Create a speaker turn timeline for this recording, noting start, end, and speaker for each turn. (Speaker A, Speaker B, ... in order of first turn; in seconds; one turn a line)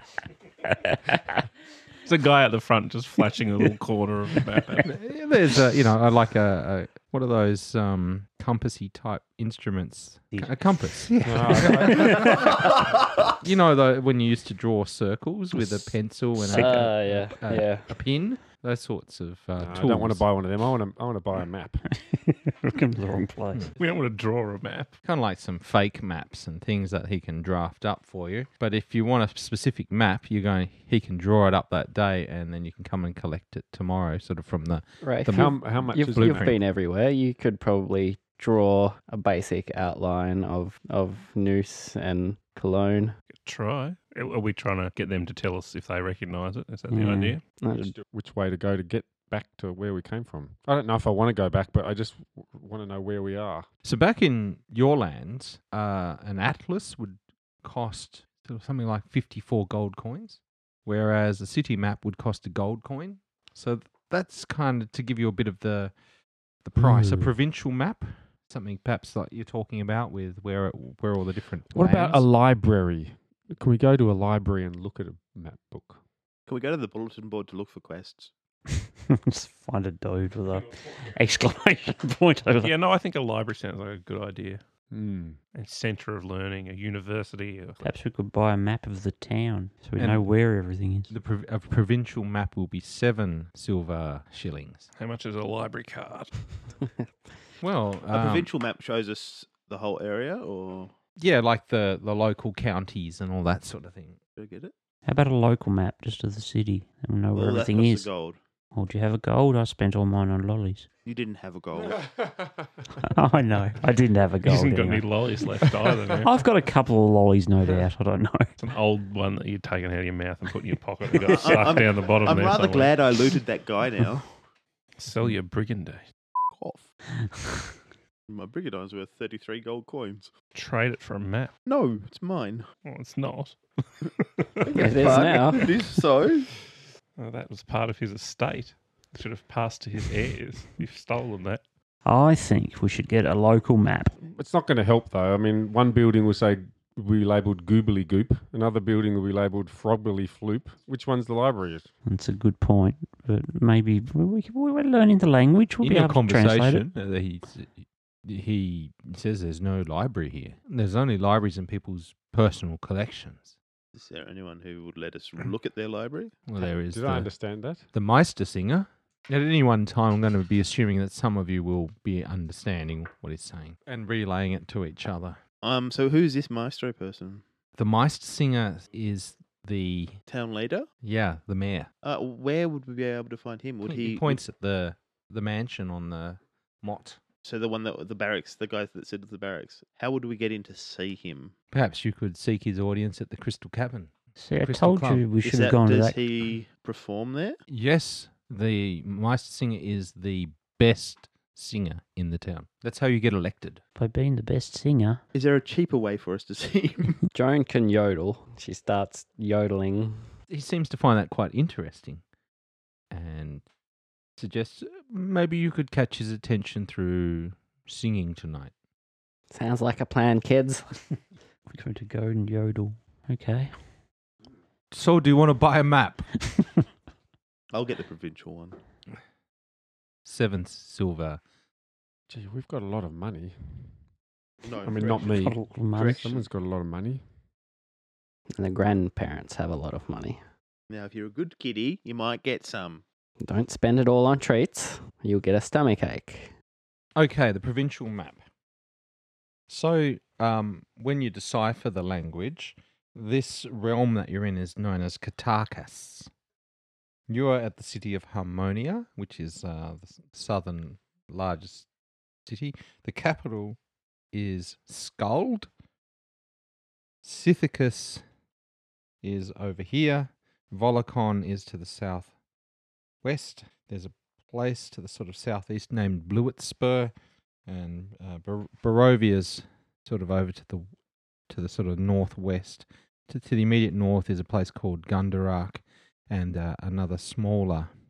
Speaker A: 0.7-1.3
Speaker B: 2.0-4.9
Speaker C: 4.8-12.6
Speaker D: 11.2-12.4
Speaker A: 11.5-12.6
Speaker C: 13.4-20.2
Speaker E: 16.4-17.9
Speaker D: 19.6-21.9
Speaker A: 21.9-23.6
Speaker B: 23.8-24.9
Speaker C: 25.0-36.6
Speaker E: 35.0-43.1
Speaker D: 35.3-36.5
Speaker B: 43.3-47.5
Speaker A: 46.9-47.4
Speaker E: 47.6-48.0
Speaker D: 47.7-53.7
Speaker C: 53.8-65.9
Speaker C: 66.6-72.2
Speaker D: 66.8-67.3
Speaker D: 71.7-76.0
Speaker F: 76.5-78.3
Speaker A: 79.1-82.7
Speaker B: 82.6-84.6
Speaker D: 84.9-85.4
Speaker B: 85.5-87.8
Speaker A: 87.8-91.1
Speaker C: 90.0-90.2
Speaker C: 91.1-94.9
Speaker B: 95.0-96.5
Speaker C: 97.6-98.5
Speaker F: 98.1-100.9
Speaker C: 101.2-104.2
Speaker F: 104.3-104.7
Speaker A: 105.0-108.1
Speaker F: 107.3-108.4
Speaker A: 108.7-110.9
Speaker F: 111.0-112.0
Speaker A: 113.0-115.2
Speaker B: 114.4-116.3
Speaker A: 116.2-118.5
Speaker B: 118.6-123.0
Speaker F: 121.3-124.3
Speaker A: 121.4-121.7
Speaker B: 125.0-126.0
Speaker F: 126.5-126.9
Speaker F: 128.3-130.3
Speaker B: 130.5-131.5
Speaker F: 131.7-132.7
Speaker B: 132.8-135.7
Speaker E: 134.7-135.7
Speaker F: 134.8-136.5
Speaker B: 137.2-141.6
Speaker A: 142.0-144.2
Speaker D: 144.3-151.9
Speaker A: 152.1-156.8
Speaker C: 155.8-163.5
Speaker F: 163.9-166.4
Speaker C: 166.5-167.3
Speaker D: 166.9-167.9
Speaker C: 167.9-175.4
Speaker F: 175.6-177.4
Speaker C: 177.8-180.2
Speaker F: 180.3-180.9
Speaker C: 181.0-181.9
Speaker F: 182.0-184.4
Speaker C: 183.8-187.2
Speaker F: 187.4-191.5
Speaker C: 191.7-195.2
Speaker A: 194.4-196.2
Speaker F: 195.4-197.6
Speaker C: 197.7-203.8
Speaker A: 203.9-205.2
Speaker F: 205.3-207.2
Speaker E: 207.3-210.3
Speaker C: 210.5-212.2
Speaker C: 213.1-213.6
Speaker C: 214.4-218.7
Speaker E: 219.5-221.0
Speaker A: 221.7-223.9
Speaker C: 224.9-226.2
Speaker F: 227.7-228.8
Speaker C: 230.2-231.4
Speaker D: 232.3-234.1
Speaker F: 234.6-236.5
Speaker D: 234.8-237.3
Speaker A: 235.2-236.2
Speaker E: 238.6-240.4
Speaker F: 240.9-243.0
Speaker E: 243.4-246.5
Speaker C: 247.2-248.4
Speaker C: 249.7-256.3
Speaker C: 257.3-261.9
Speaker C: 262.4-263.8
Speaker C: 264.3-265.7
Speaker C: 267.2-268.2
Speaker C: 269.2-272.3
Speaker C: 273.2-277.1
Speaker C: 277.7-280.9
Speaker C: 281.5-287.9